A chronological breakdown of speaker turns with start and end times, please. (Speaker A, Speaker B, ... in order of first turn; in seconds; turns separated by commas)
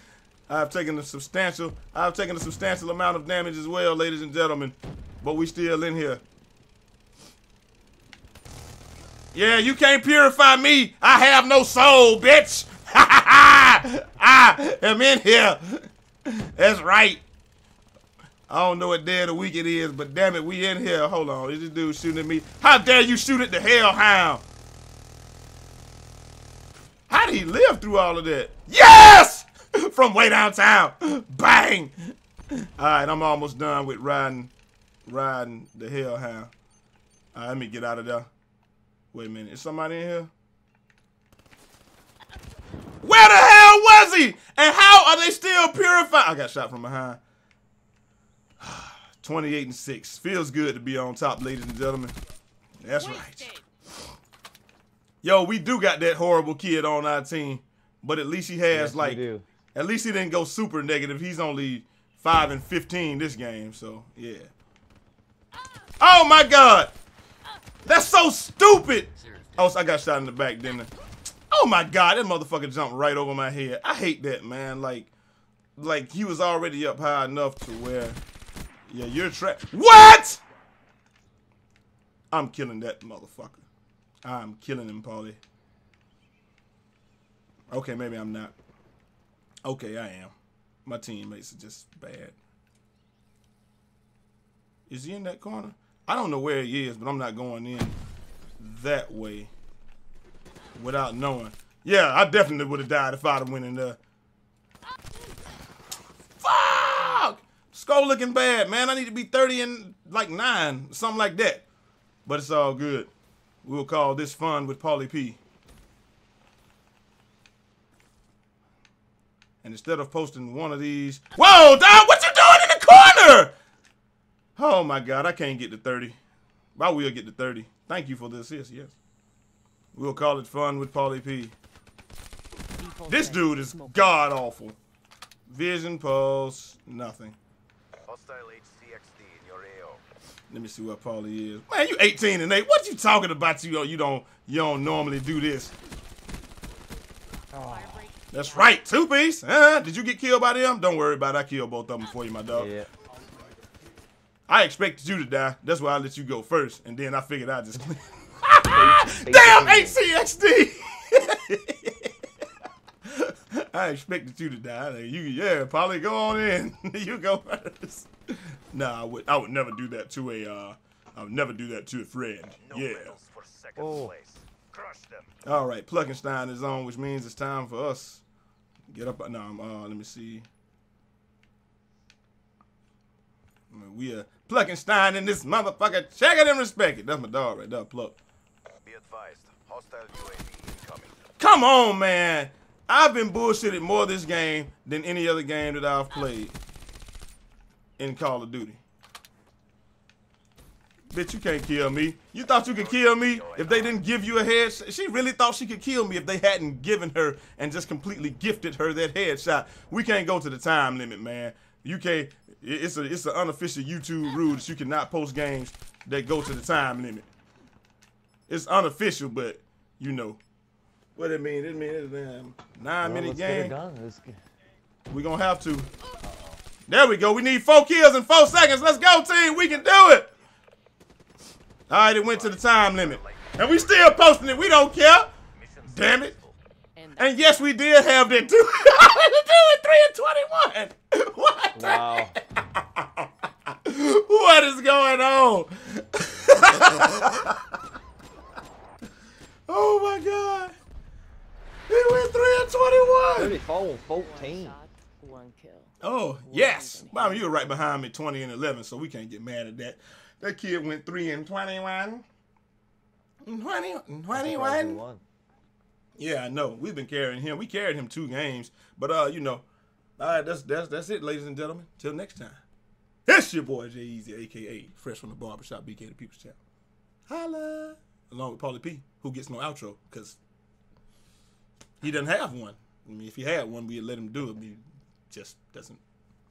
Speaker A: 0.5-6.2, Speaker A: 9.3-17.2, Speaker A: 18.5-24.4, Speaker A: 27.1-31.9, Speaker A: 32.8-34.5, Speaker A: 35.0-36.5, Speaker A: 37.3-38.3, Speaker A: 39.1-40.3, Speaker A: 43.0-47.2, Speaker A: 48.6-52.1, Speaker A: 52.8-53.5, Speaker B: 53.0-53.6, Speaker A: 55.2-64.5, Speaker C: 58.7-59.4, Speaker A: 66.0-66.9, Speaker A: 67.8-70.9, Speaker A: 71.5-75.1, Speaker A: 75.8-78.2, Speaker A: 78.9-80.4, Speaker A: 82.3-83.6, Speaker A: 84.2-85.4, Speaker A: 87.7-88.5, Speaker A: 89.6-90.3, Speaker A: 90.8-92.3, Speaker A: 94.9-98.0, Speaker A: 98.6-99.5, Speaker A: 100.7-104.0, Speaker A: 106.4-111.6, Speaker A: 112.2-113.1, Speaker A: 113.6-115.4, Speaker A: 119.6-123.5, Speaker A: 124.5-126.2, Speaker A: 126.8-128.9, Speaker A: 129.9-131.5, Speaker B: 132.8-134.2, Speaker A: 133.1-134.8, Speaker A: 135.5-137.4, Speaker D: 138.1-140.0, Speaker A: 140.5-145.7, Speaker C: 147.5-148.1, Speaker B: 147.6-148.8, Speaker A: 148.3-152.7, Speaker C: 152.5-152.9, Speaker A: 154.5-162.1, Speaker C: 158.6-160.0, Speaker A: 163.1-173.2, Speaker D: 172.6-175.3, Speaker C: 173.8-174.1, Speaker A: 175.4-178.2, Speaker A: 178.9-180.5, Speaker A: 183.7-188.2, Speaker D: 188.8-191.1, Speaker A: 191.4-196.6, Speaker A: 198.0-198.8, Speaker A: 201.1-217.3, Speaker D: 202.7-204.0, Speaker A: 218.5-220.4, Speaker A: 221.2-223.8, Speaker C: 223.0-224.4, Speaker A: 225.1-225.9, Speaker C: 226.2-226.6, Speaker A: 226.9-230.3, Speaker D: 229.1-230.2, Speaker A: 231.9-235.3, Speaker D: 232.1-234.9, Speaker D: 235.5-236.6, Speaker A: 235.9-236.3, Speaker B: 236.9-238.5, Speaker A: 237.2-247.5, Speaker C: 241.7-242.3, Speaker A: 249.7-250.7, Speaker A: 251.9-253.6, Speaker C: 253.3-254.8, Speaker B: 254.1-257.8, Speaker A: 256.0-262.2, Speaker A: 263.4-265.0, Speaker C: 264.3-265.2, Speaker A: 266.2-269.6, Speaker A: 270.2-272.6, Speaker A: 273.3-276.6, Speaker A: 277.3-280.4, Speaker A: 282.0-286.0